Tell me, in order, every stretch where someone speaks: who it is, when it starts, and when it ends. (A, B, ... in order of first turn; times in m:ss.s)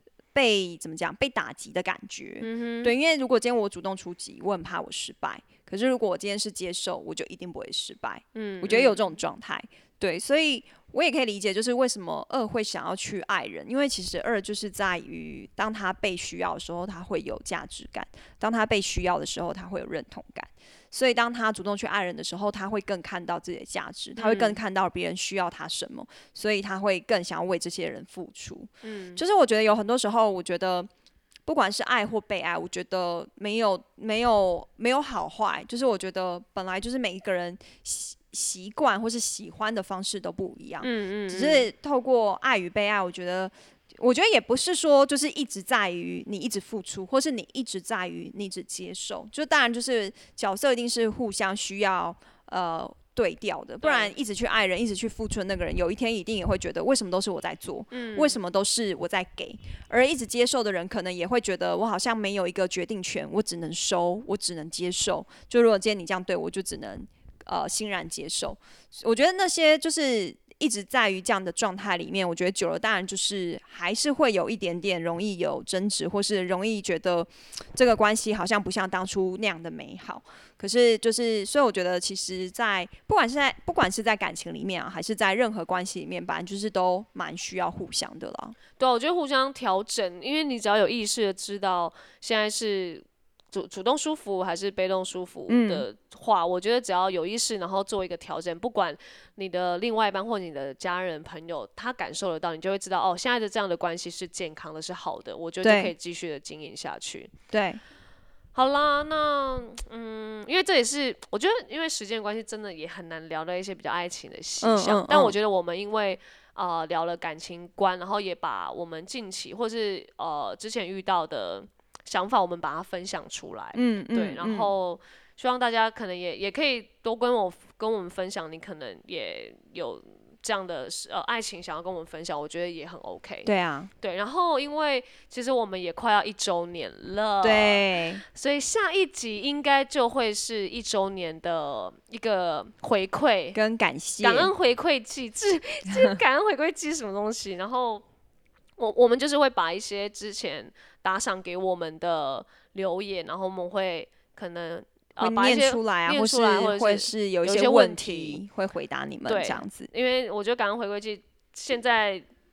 0:00.3-0:30.9 A
0:02.4-0:02.9 B
0:08.4-0:09.0 B
0:24.2-0:24.6 B
0:28.8-0:29.2 B
0:31.5-1:28.6 A
0:40.8-0:41.7 B
0:53.8-0:54.1 B
0:57.9-0:58.4 B
1:28.8-1:47.3 B
1:35.5-1:35.9 A
1:45.6-1:45.9 A
1:47.5-1:47.8 A
1:48.5-2:23.6 B
1:54.6-1:55.3 A
2:03.8-2:04.7 A
2:13.5-2:13.9 A
2:17.4-2:18.2 A
2:23.6-2:24.5 A
2:24.2-2:28.0 B
2:28.8-2:38.4 B
2:35.2-2:39.9 A
2:39.3-2:42.2 B